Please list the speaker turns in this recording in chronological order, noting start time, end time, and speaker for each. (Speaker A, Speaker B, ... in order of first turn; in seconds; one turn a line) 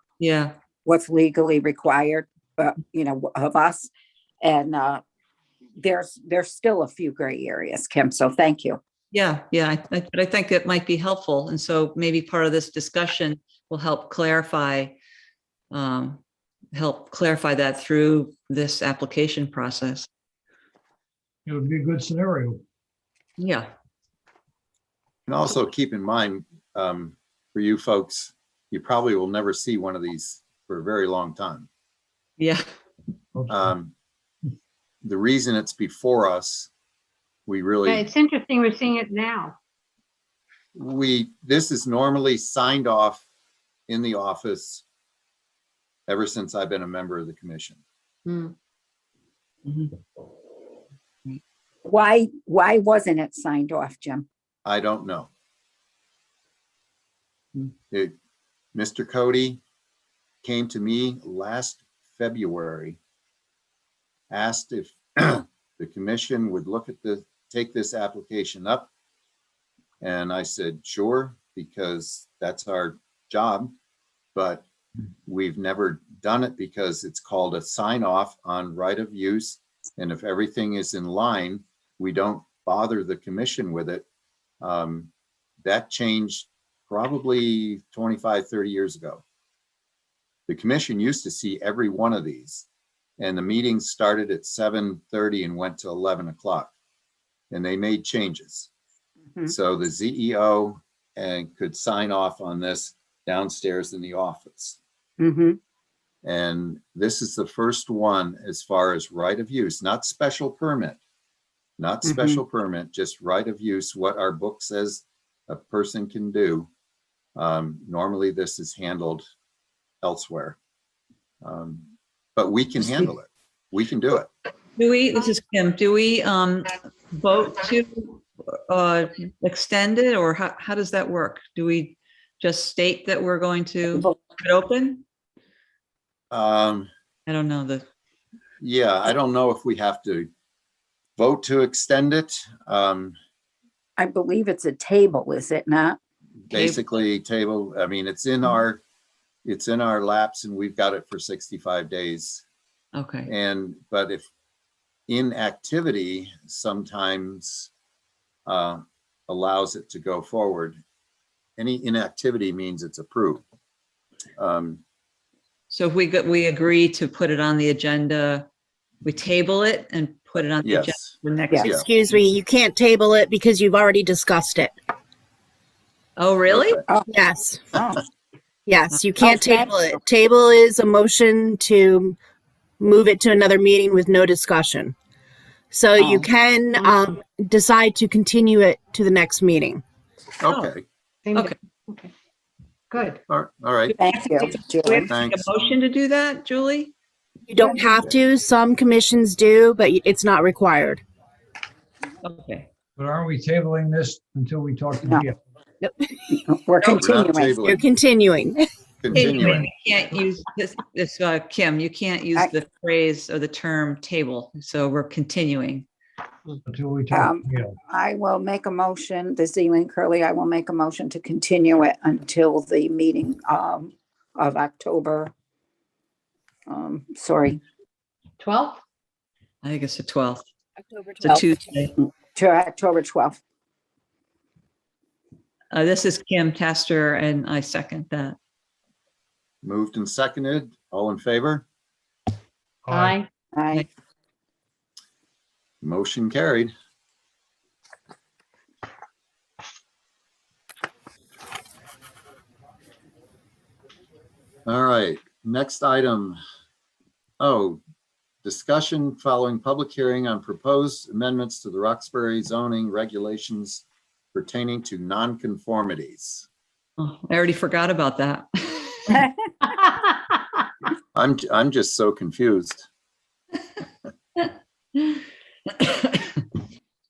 Speaker A: 0.2-0.5
Speaker B: 0.8-3.9
Speaker B: 4.4-5.0
Speaker B: 5.8-8.8
Speaker A: 9.1-15.0
Speaker A: 15.7-16.2
Speaker A: 16.7-20.1
Speaker C: 21.4-22.6
Speaker A: 23.4-23.7
Speaker D: 25.3-31.7
Speaker C: 33.3-33.7
Speaker D: 33.5-33.9
Speaker D: 35.0-36.7
Speaker D: 37.5-38.1
Speaker E: 37.8-39.6
Speaker D: 40.8-43.2
Speaker D: 43.9-44.8
Speaker D: 46.1-47.8
Speaker E: 48.2-48.5
Speaker A: 49.6-49.9
Speaker B: 51.9-54.3
Speaker D: 54.6-55.3
Speaker D: 57.9-58.1
Speaker D: 58.7-59.6
Speaker D: 60.4-63.0
Speaker D: 64.3-68.9
Speaker D: 70.0-73.7
Speaker D: 74.3-74.7
Speaker D: 75.2-84.0
Speaker D: 84.6-85.1
Speaker D: 85.6-89.2
Speaker D: 90.5-92.7
Speaker D: 93.2-96.7
Speaker D: 97.5-98.7
Speaker D: 99.5-104.8
Speaker B: 105.2-105.6
Speaker D: 106.2-111.0
Speaker D: 111.8-116.7
Speaker B: 112.0-112.4
Speaker D: 117.3-119.2
Speaker D: 120.0-120.6
Speaker D: 121.4-124.3
Speaker A: 124.8-135.0
Speaker D: 136.3-136.9
Speaker A: 137.3-137.8
Speaker D: 138.6-140.3
Speaker D: 141.2-143.1
Speaker B: 144.0-146.0
Speaker D: 146.5-148.8
Speaker A: 146.5-146.8
Speaker D: 149.4-152.4
Speaker A: 152.9-153.3
Speaker D: 153.2-154.3
Speaker D: 155.1-157.7
Speaker D: 158.5-160.8
Speaker D: 161.6-163.4
Speaker D: 164.4-164.8
Speaker A: 165.7-168.4
Speaker A: 169.0-171.7
Speaker D: 170.6-171.9
Speaker F: 171.7-174.7
Speaker A: 176.2-176.8
Speaker D: 176.5-176.8
Speaker F: 177.1-177.8
Speaker B: 177.7-178.0
Speaker F: 178.7-182.2
Speaker B: 179.2-179.8
Speaker F: 182.8-184.9
Speaker F: 185.7-189.8
Speaker B: 186.0-186.2
Speaker D: 190.4-190.8
Speaker A: 190.4-190.7
Speaker E: 191.2-192.1
Speaker E: 192.9-193.2
Speaker D: 193.3-193.9
Speaker A: 193.9-196.9
Speaker B: 194.0-195.1
Speaker D: 195.1-195.5
Speaker F: 197.5-201.0
Speaker A: 202.2-202.7
Speaker C: 203.0-205.4
Speaker F: 205.8-206.1
Speaker B: 206.3-207.7
Speaker D: 206.8-207.9
Speaker F: 207.6-208.7
Speaker D: 209.0-209.7
Speaker A: 209.1-215.9
Speaker C: 216.7-217.7
Speaker B: 217.1-225.3
Speaker B: 226.7-227.6
Speaker E: 228.4-228.8
Speaker A: 229.6-230.4
Speaker F: 230.8-231.4
Speaker A: 231.2-231.9
Speaker B: 232.0-233.4
Speaker A: 235.7-238.3
Speaker D: 239.6-241.6
Speaker C: 242.8-243.2
Speaker E: 242.9-243.3
Speaker B: 243.5-243.8
Speaker D: 245.8-246.7
Speaker D: 254.7-256.4
Speaker D: 257.4-257.8
Speaker D: 258.4-266.4
Speaker A: 267.0-269.3
Speaker D: 271.1-272.9
Speaker A: 275.8-276.4